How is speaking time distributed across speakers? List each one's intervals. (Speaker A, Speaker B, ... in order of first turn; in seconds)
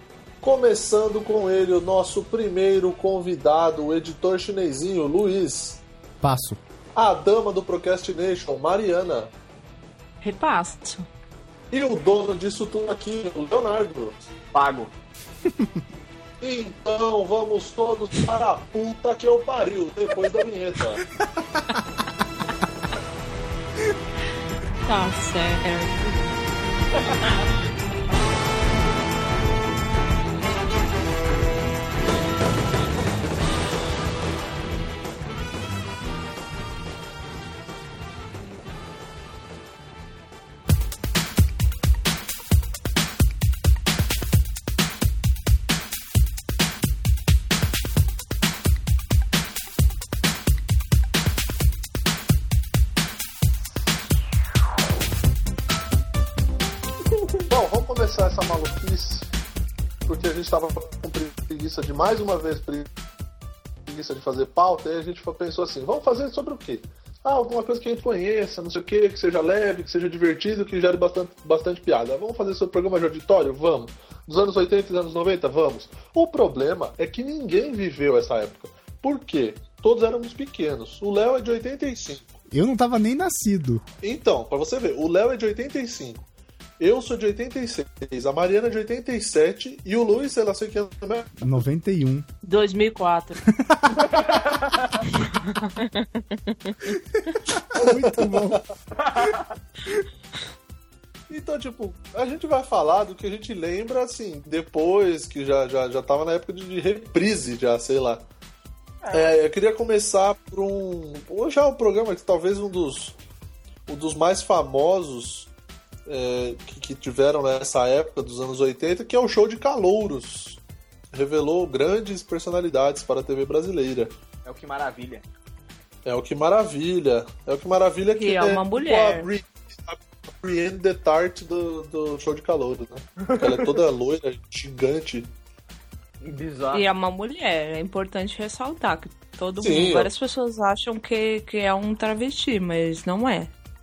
Speaker A: 0.4-5.8, 7.0-9.3, 11.7-14.2, 16.4-21.0, 57.5-59.3, 60.0-62.9, 63.9-82.3, 84.0-86.3, 86.8-91.5, 97.7-98.6, 101.3-108.3, 109.1-113.2, 113.9-115.5, 116.1-120.6, 121.1-124.1, 126.0-135.3, 139.6-140.1
Speaker B: 6.2-6.6, 15.4-15.8, 21.2-22.0, 82.5-83.8, 91.4-92.3, 93.5-94.2, 96.9-98.6
Speaker C: 10.2-11.1, 24.9-26.1, 92.4-93.4, 95.1-96.9, 128.1-129.3, 136.7-143.5
Speaker D: 14.5-14.9, 94.0-95.0, 99.0-99.5, 109.0-109.4, 124.5-125.2, 133.2-133.8, 136.2-136.9